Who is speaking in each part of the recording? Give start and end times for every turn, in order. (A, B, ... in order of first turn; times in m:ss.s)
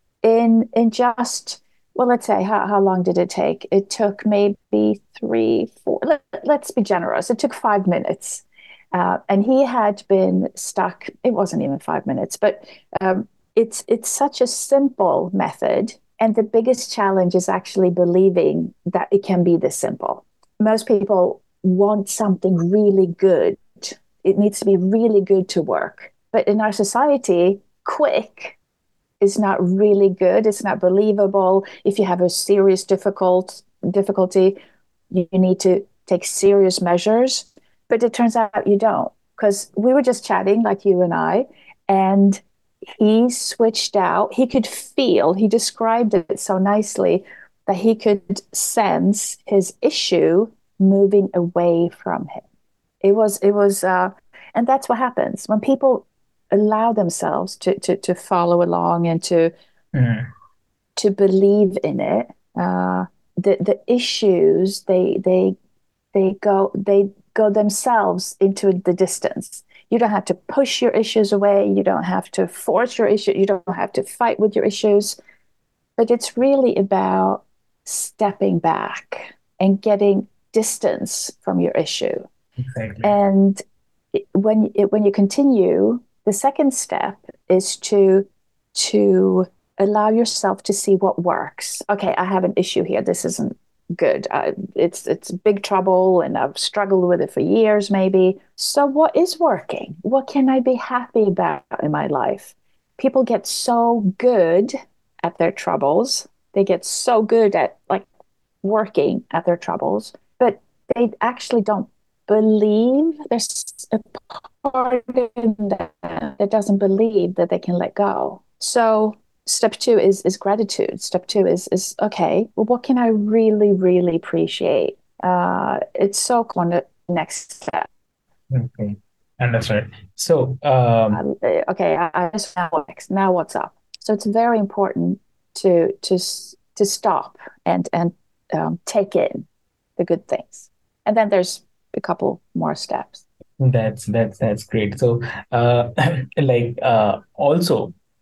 0:00.2-0:28.6 A
0:29.2-0:34.6 A
0:35.1-0:42.4 A
0:43.0-0:52.4 A
0:53.0-0:59.5 A
0:59.9-1:00.3 B
1:01.0-1:05.6 A
1:06.1-1:15.2 A
1:16.0-1:22.3 A
1:22.6-1:23.2 B
1:23.0-1:23.6 A
1:24.1-1:48.1 A
1:48.6-2:07.9 A
2:08.5-2:11.2 B
2:11.1-2:23.2 A
2:23.6-2:28.0 B